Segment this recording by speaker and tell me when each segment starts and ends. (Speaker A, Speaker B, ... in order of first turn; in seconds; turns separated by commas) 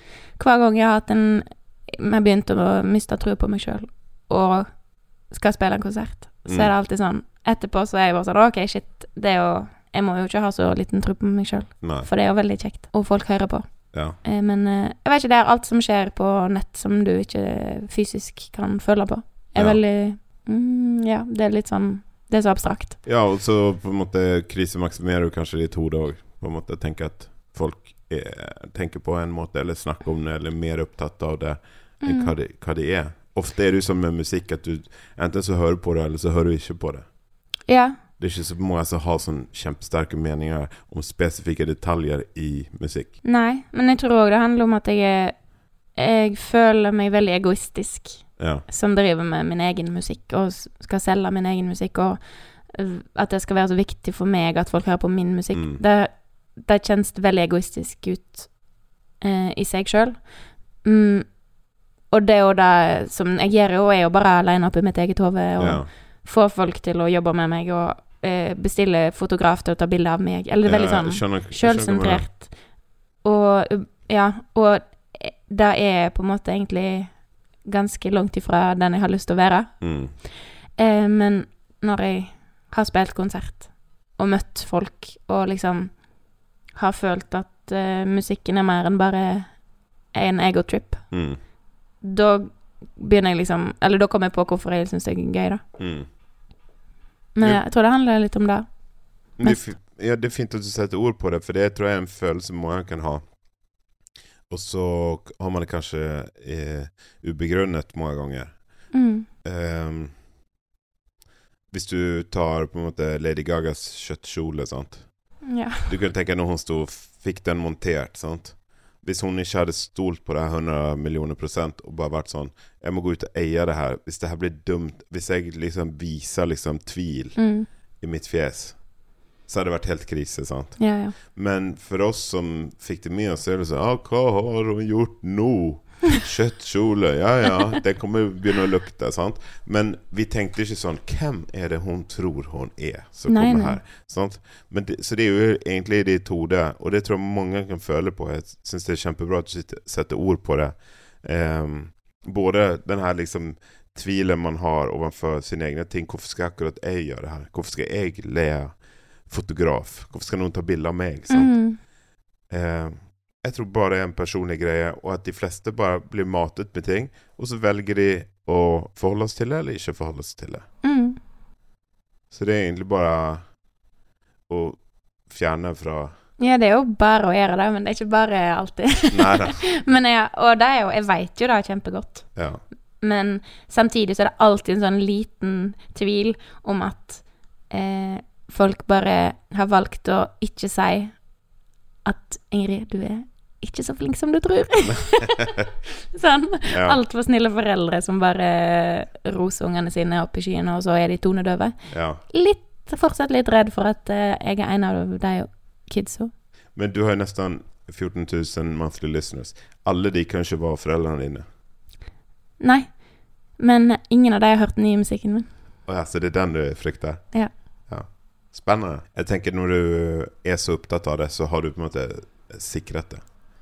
Speaker A: 0.4-23.0, Speaker B: 6.5-6.7, Speaker B: 11.8-12.1, Speaker B: 13.9-14.2, Speaker B: 19.6-19.8, Speaker B: 23.1-37.1, Speaker A: 32.0-32.3, Speaker A: 37.7-38.0, Speaker B: 38.2-43.2, Speaker A: 43.2-45.4, Speaker A: 45.9-58.6, Speaker B: 48.4-48.6, Speaker B: 55.5-55.8, Speaker A: 59.2-61.5, Speaker A: 62.1-80.2, Speaker B: 65.6-65.9, Speaker B: 70.7-72.3, Speaker B: 79.8-80.1, Speaker A: 80.8-86.1, Speaker A: 86.7-89.6, Speaker A: 90.1-91.1, Speaker B: 91.1-91.4, Speaker A: 92.0-95.6, Speaker B: 95.8-96.1, Speaker A: 97.3-98.7, Speaker B: 99.4-103.2, Speaker B: 104.5-110.2, Speaker A: 108.9-109.3, Speaker B: 111.7-127.5, Speaker A: 115.4-115.9, Speaker A: 127.4-127.7, Speaker B: 128.0-128.9, Speaker B: 129.4-161.6, Speaker A: 130.8-131.2, Speaker A: 143.3-143.8, Speaker A: 161.3-161.8, Speaker B: 162.5-170.7, Speaker A: 170.8-171.2, Speaker B: 172.3-173.4, Speaker B: 174.5-176.2, Speaker A: 176.4-182.3, Speaker B: 179.1-179.6, Speaker B: 182.3-182.6, Speaker A: 183.0-191.2, Speaker A: 192.1-195.6, Speaker B: 194.9-195.7, Speaker A: 196.1-206.3, Speaker B: 196.7-197.0, Speaker B: 201.9-202.2, Speaker B: 206.8-211.4, Speaker A: 212.6-213.0, Speaker A: 213.6-215.5, Speaker B: 215.9-223.3